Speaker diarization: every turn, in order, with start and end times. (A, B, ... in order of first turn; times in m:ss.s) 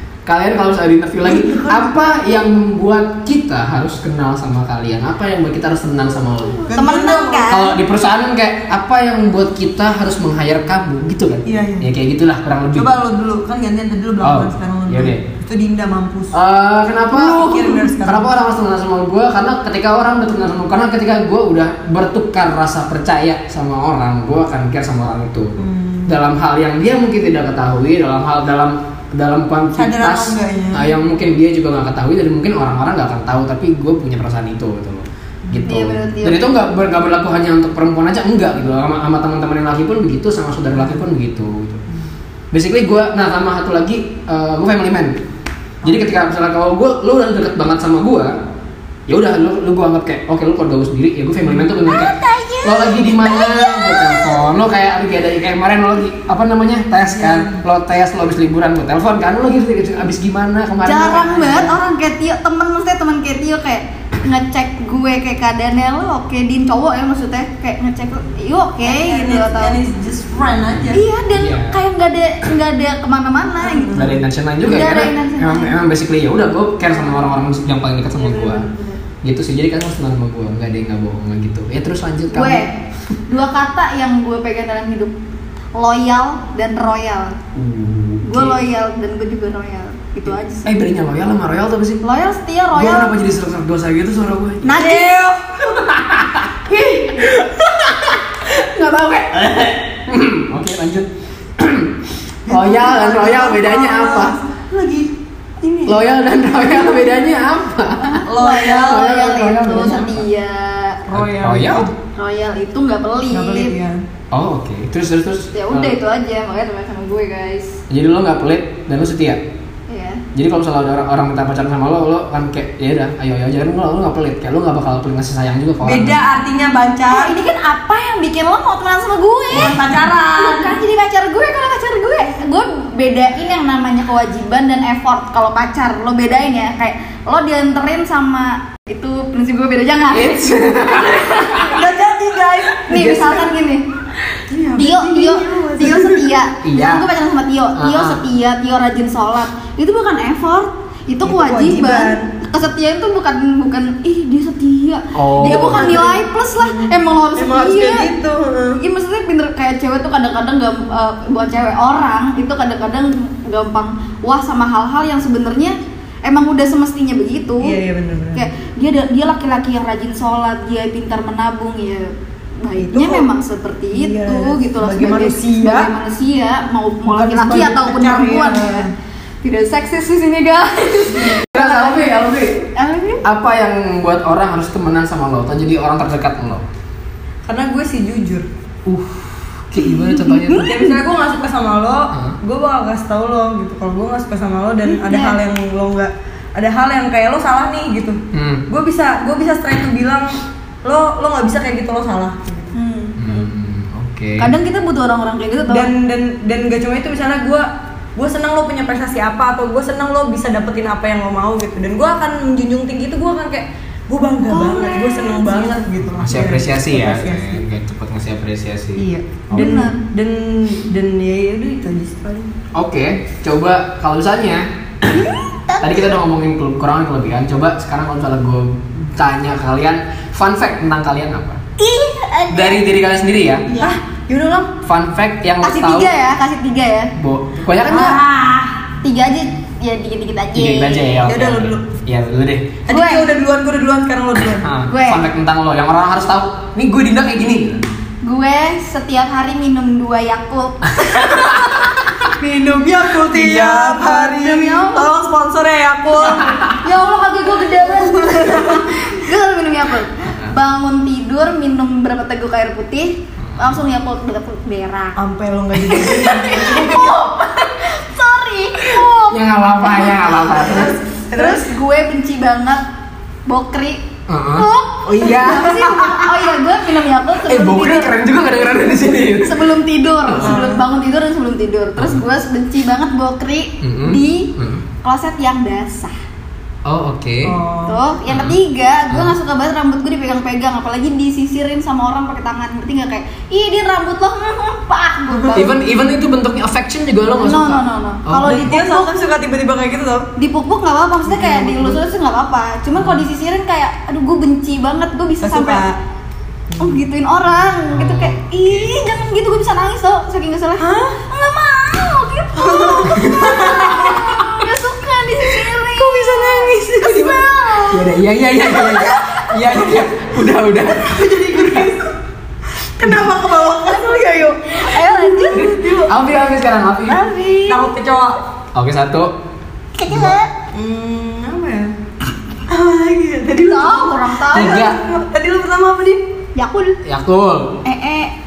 0:00.2-0:06.6 A
0:01.2-0:01.9 B
0:06.6-0:07.6 B
0:06.7-0:07.8 C
0:07.5-0:12.9 A
0:11.4-0:11.9 B
0:12.7-0:16.3 B
0:14.2-0:15.2 A
0:16.3-0:25.5 A
0:17.1-0:18.3 B
0:25.6-0:26.2 B
0:26.1-0:41.8 A
0:29.7-0:30.9 B
0:35.6-0:36.5 C
0:42.5-0:45.2 A
0:45.8-0:48.4 A
0:49.1-1:01.8 A
0:51.8-0:54.4 C
0:57.2-0:57.6 B
1:00.8-1:09.8 C
1:08.8-1:11.0 B
1:10.9-1:14.1 C
1:11.3-1:11.8 A
1:13.6-1:14.2 B
1:13.9-1:18.7 A
1:14.6-1:15.7 C
1:18.2-1:19.0 C
1:19.2-1:22.7 A
1:22.3-1:22.7 C
1:23.3-1:25.1 C
1:25.8-1:27.4 C
1:27.5-1:28.6 A
1:28.2-1:30.7 C
1:30.3-1:32.0 A
1:32.0-1:33.1 C
1:32.7-1:34.8 A
1:34.6-1:35.2 C
1:34.8-1:35.6 B
1:35.6-1:44.4 A
1:42.5-1:46.1 B
1:45.8-1:50.2 A
1:48.2-1:49.9 B
1:48.3-1:51.0 C
1:51.1-1:51.9 B
1:51.1-1:51.9 A
1:52.1-1:53.7 C
1:53.3-1:54.0 B
1:54.3-1:56.0 A
1:55.5-1:57.8 C
1:57.9-1:59.4 A
1:59.9-2:00.2 C
2:00.3-2:06.2 A
2:05.8-2:07.3 B
2:07.1-2:21.8 C
2:09.5-2:10.8 B
2:20.1-2:21.8 A
2:21.6-2:23.2 B
2:22.7-2:23.4 A
2:22.9-2:23.8 C
2:24.5-2:26.2 B
2:24.8-2:38.1 C
2:26.6-2:27.1 A
2:27.8-2:28.2 A
2:31.2-2:32.3 B
2:35.1-2:36.1 A
2:35.4-2:38.8 B
2:38.8-2:47.7 C
2:47.6-2:48.5 B
2:48.3-2:58.9 C
2:52.8-2:53.3 B
2:53.9-2:55.9 B
2:57.1-2:58.9 B
2:59.4-3:02.1 C
3:01.5-3:02.7 A
3:02.7-3:03.2 C
3:03.2-3:06.6 A
3:07.4-3:08.4 B
3:08.8-3:10.8 A
3:09.8-3:10.6 C
3:10.5-3:22.7 B
3:12.1-3:12.4 A
3:14.8-3:15.4 C
3:18.3-3:18.6 A
3:22.7-3:23.2 C
3:23.2-3:24.5 A
3:24.4-3:25.9 C
3:25.7-3:37.6 B
3:34.5-3:35.8 C
3:36.1-3:39.8 A
3:39.0-3:42.5 B
3:39.5-3:40.0 C
3:42.7-3:45.2 A
3:45.8-3:51.6 A
3:51.8-3:52.8 C
3:52.5-3:53.7 A
3:53.7-3:53.9 C
3:53.7-3:54.7 B
3:54.8-3:56.1 A
3:55.6-3:57.1 C
3:57.2-3:58.2 A
3:57.8-3:58.7 B
3:59.0-4:01.2 C
4:00.5-4:02.8 A
4:01.2-4:01.8 B
4:02.8-4:04.7 B
4:02.9-4:03.3 C
4:04.6-4:07.8 A
4:04.9-4:05.2 C
4:08.2-4:12.2 C
4:11.0-4:11.8 A
4:12.4-4:19.0 B
4:13.3-4:13.9 A
4:13.6-4:15.1 C
4:16.2-4:25.2 C
4:16.4-4:16.8 A
4:23.5-4:23.8 A
4:25.2-4:27.2 B
4:25.8-4:32.8 C
4:29.0-4:31.0 A
4:30.6-4:31.7 B
4:33.5-4:38.2 C
4:34.3-4:36.4 A
4:37.4-4:39.7 A
4:38.8-4:46.1 C
4:40.2-4:40.6 A
4:40.4-4:40.8 B
4:42.0-4:42.2 A
4:43.8-4:44.8 A
4:46.8-4:47.5 A
4:47.4-4:48.0 B
4:47.8-4:55.7 C
4:48.3-4:48.6 A
4:55.3-4:55.6 B
4:55.5-4:58.7 A
4:57.4-4:59.2 C
4:58.4-5:00.3 B
5:00.4-5:05.8 C
5:01.3-5:02.0 B
5:05.4-5:06.0 B
5:06.8-5:18.1 C
5:07.9-5:08.9 A
5:10.8-5:11.2 B
5:12.6-5:14.2 B
5:13.1-5:14.4 A
5:15.8-5:17.4 B
5:17.9-5:21.9 A
5:18.8-5:20.1 B
5:20.8-5:22.1 B
5:23.0-5:26.1 B
5:23.8-5:26.1 C
5:25.5-5:27.2 A
5:27.0-5:27.9 C
5:27.7-5:28.4 B
5:28.7-5:29.3 A
5:30.0-5:30.5 C
5:30.1-5:30.4 A
5:30.7-5:31.9 B
5:32.7-5:36.2 B
5:33.6-5:34.8 C
5:34.5-5:35.0 A
5:36.5-5:37.0 C
5:37.0-5:37.8 A
5:37.8-5:38.3 C